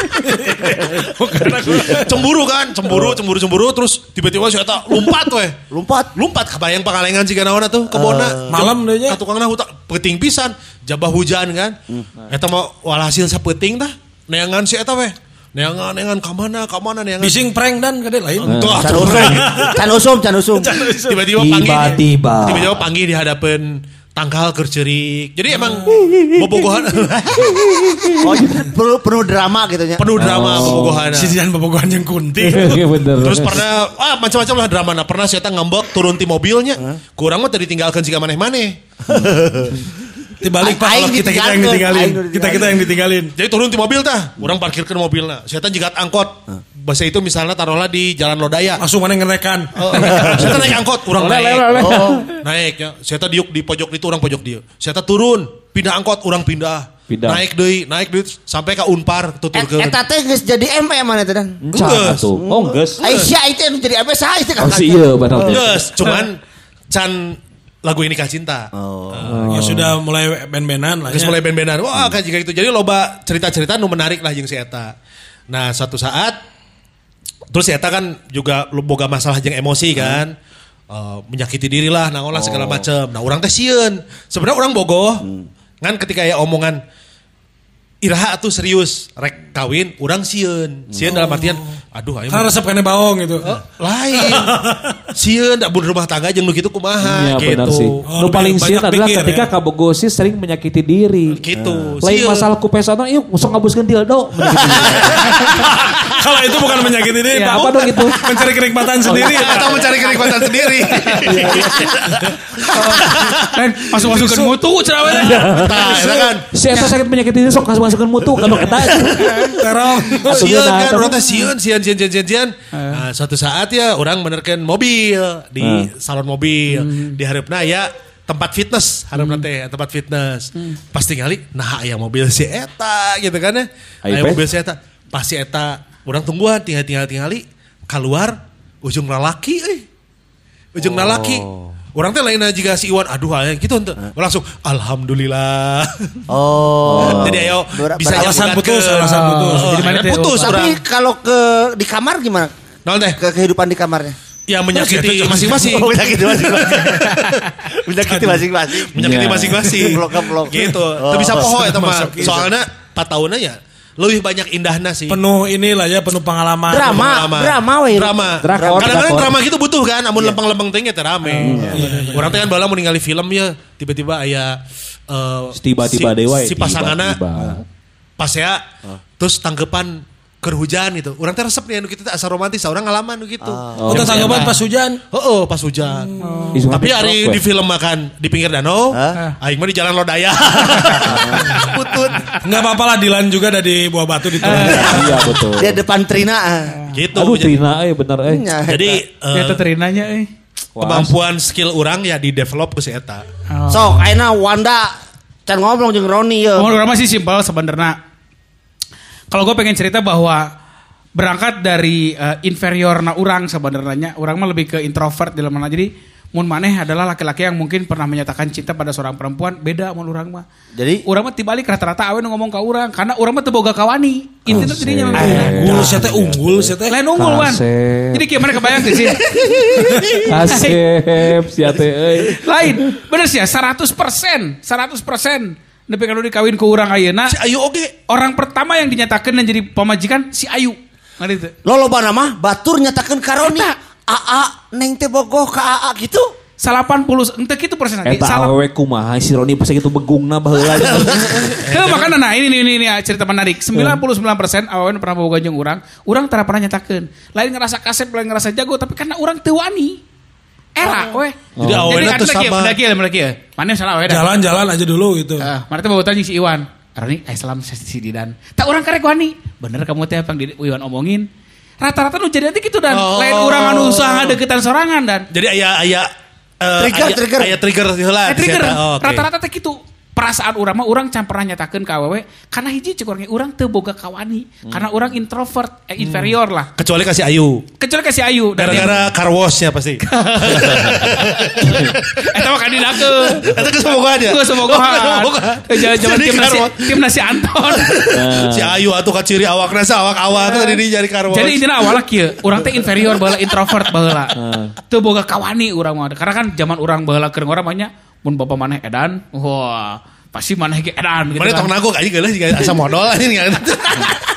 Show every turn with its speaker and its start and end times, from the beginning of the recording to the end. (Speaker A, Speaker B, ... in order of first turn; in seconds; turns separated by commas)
Speaker A: 0.2-2.2, Speaker B: 0.5-1.0, Speaker B: 1.6-5.6, Speaker C: 5.7-6.1, Speaker B: 6.2-11.8, Speaker C: 7.9-8.7, Speaker A: 8.5-9.2, Speaker B: 12.3-17.4, Speaker A: 17.2-19.8, Speaker B: 18.4-19.7, Speaker D: 18.4-19.2, Speaker C: 18.8-20.8, Speaker A: 20.6-21.5, Speaker B: 21.1-27.7, Speaker D: 21.4-22.9, Speaker D: 25.9-26.4, Speaker D: 27.8-28.6, Speaker C: 28.2-30.9, Speaker B: 30.0-31.4, Speaker D: 30.2-31.1, Speaker A: 31.0-32.9, Speaker D: 32.4-33.6, Speaker B: 33.2-38.8, Speaker C: 39.1-39.8, Speaker A: 40.4-43.3, Speaker C: 40.6-42.9, Speaker B: 43.4-48.8, Speaker A: 48.8-50.8, Speaker B: 49.8-60.0, Speaker E: 51.2-52.4, Speaker C: 51.8-52.3, Speaker D: 57.1-57.4, Speaker C: 59.5-61.6, Speaker D: 61.6-63.0, Speaker B: 61.7-62.3, Speaker C: 62.4-65.6, Speaker B: 63.0-63.3, Speaker D: 64.6-65.9, Speaker B: 65.4-66.4, Speaker B: 66.9-69.4, Speaker C: 68.8-69.4, Speaker D: 69.3-70.0, Speaker A: 69.5-71.4, Speaker B: 71.1-74.9, Speaker B: 75.5-76.4, Speaker B: 77.5-80.3, Speaker C: 79.9-80.2, Speaker B: 80.9-85.3, Speaker C: 82.4-82.8, Speaker C: 85.2-85.5, Speaker B: 85.8-86.8, Speaker B: 88.0-92.5, Speaker C: 90.9-91.3, Speaker A: 91.2-91.6, Speaker A: 92.3-93.6, Speaker B: 93.5-94.6, Speaker A: 94.3-94.9, Speaker B: 95.1-98.0, Speaker D: 97.0-101.4, Speaker A: 98.1-99.5, Speaker B: 101.3-102.5, Speaker C: 101.6-102.0, Speaker D: 102.0-105.4, Speaker B: 104.7-106.6, Speaker A: 105.3-111.5, Speaker E: 107.3-107.7, Speaker D: 107.4-108.2, Speaker B: 109.1-113.6, Speaker D: 111.3-111.7, Speaker E: 112.7-115.6, Speaker A: 114.1-116.3, Speaker B: 115.5-116.5, Speaker D: 116.5-119.6, Speaker A: 119.5-120.5, Speaker B: 120.2-139.8, Speaker D: 120.2-121.5, Speaker E: 122.7-123.0, Speaker D: 125.6-125.9, Speaker E: 126.7-127.2, Speaker E: 129.2-129.4, Speaker D: 134.0-134.4, Speaker B: 140.8-146.2, Speaker C: 140.8-141.7, Speaker C: 146.3-148.6, Speaker D: 146.9-147.5, Speaker B: 146.9-150.8, Speaker A: 148.1-149.9, Speaker E: 149.0-150.6, Speaker C: 150.4-152.5, Speaker B: 152.9-153.2, Speaker C: 153.2-154.2, Speaker B: 154.5-157.3, Speaker A: 154.7-155.6, Speaker C: 155.4-158.9, Speaker A: 158.1-158.4, Speaker B: 158.9-165.2, Speaker D: 159.0-159.8, Speaker C: 159.8-161.5, Speaker A: 161.4-162.5, Speaker A: 165.1-167.2, Speaker C: 166.7-169.1, Speaker B: 166.8-174.6, Speaker D: 168.4-169.4, Speaker C: 171.4-171.9, Speaker A: 171.7-172.5, Speaker B: 175.1-177.2, Speaker D: 175.5-177.6, Speaker B: 178.2-178.6, Speaker B: 179.2-184.5, Speaker C: 183.4-184.1, Speaker D: 183.8-184.5, Speaker A: 183.9-185.0, Speaker B: 185.1-186.1, Speaker A: 185.9-186.5, Speaker E: 186.2-186.6, Speaker D: 186.6-187.4, Speaker B: 186.7-192.3, Speaker C: 188.9-189.2, Speaker C: 191.1-191.4, Speaker E: 191.5-192.3, Speaker A: 192.4-195.3, Speaker E: 194.4-194.9, Speaker D: 194.4-195.8, Speaker C: 194.5-196.8, Speaker B: 196.9-197.6, Speaker D: 197.1-198.4, Speaker C: 198.3-199.0, Speaker B: 198.7-199.6, Speaker E: 199.3-200.3, Speaker D: 200.8-201.2, Speaker B: 200.8-203.2, Speaker E: 203.5-204.0, Speaker C: 203.7-204.9, Speaker C: 205.5-206.7, Speaker E: 206.6-208.0, Speaker E: 209.3-210.5, Speaker E: 211.2-220.4, Speaker C: 220.8-221.0, Speaker E: 221.1-225.9, Speaker D: 224.5-228.6, Speaker A: 225.1-227.0, Speaker E: 226.9-230.8, Speaker D: 230.2-232.4, Speaker E: 232.3-237.3, Speaker B: 237.3-237.9, Speaker E: 238.1-241.5, Speaker C: 241.7-246.3, Speaker E: 243.4-243.7, Speaker E: 246.6-248.6, Speaker D: 248.1-251.6, Speaker B: 251.5-252.1, Speaker E: 251.6-260.0, Speaker D: 253.8-254.0, Speaker E: 260.8-264.3, Speaker B: 260.9-262.8, Speaker D: 261.6-262.1, Speaker A: 264.1-265.5, Speaker E: 265.4-271.2, Speaker E: 271.8-275.3, Speaker B: 272.9-274.4, Speaker B: 275.3-276.1, Speaker B: 276.6-279.2, Speaker C: 276.8-277.6, Speaker E: 278.3-286.7, Speaker D: 284.7-285.1, Speaker B: 286.0-287.6, Speaker E: 287.8-289.0, Speaker B: 288.6-292.3, Speaker E: 290.0-293.5, Speaker B: 293.3-297.0, Speaker E: 294.2-298.0, Speaker B: 297.8-302.0, Speaker D: 298.1-298.8, Speaker E: 300.4-300.8, Speaker E: 301.3-311.7, Speaker D: 304.4-304.7, Speaker B: 311.4-314.2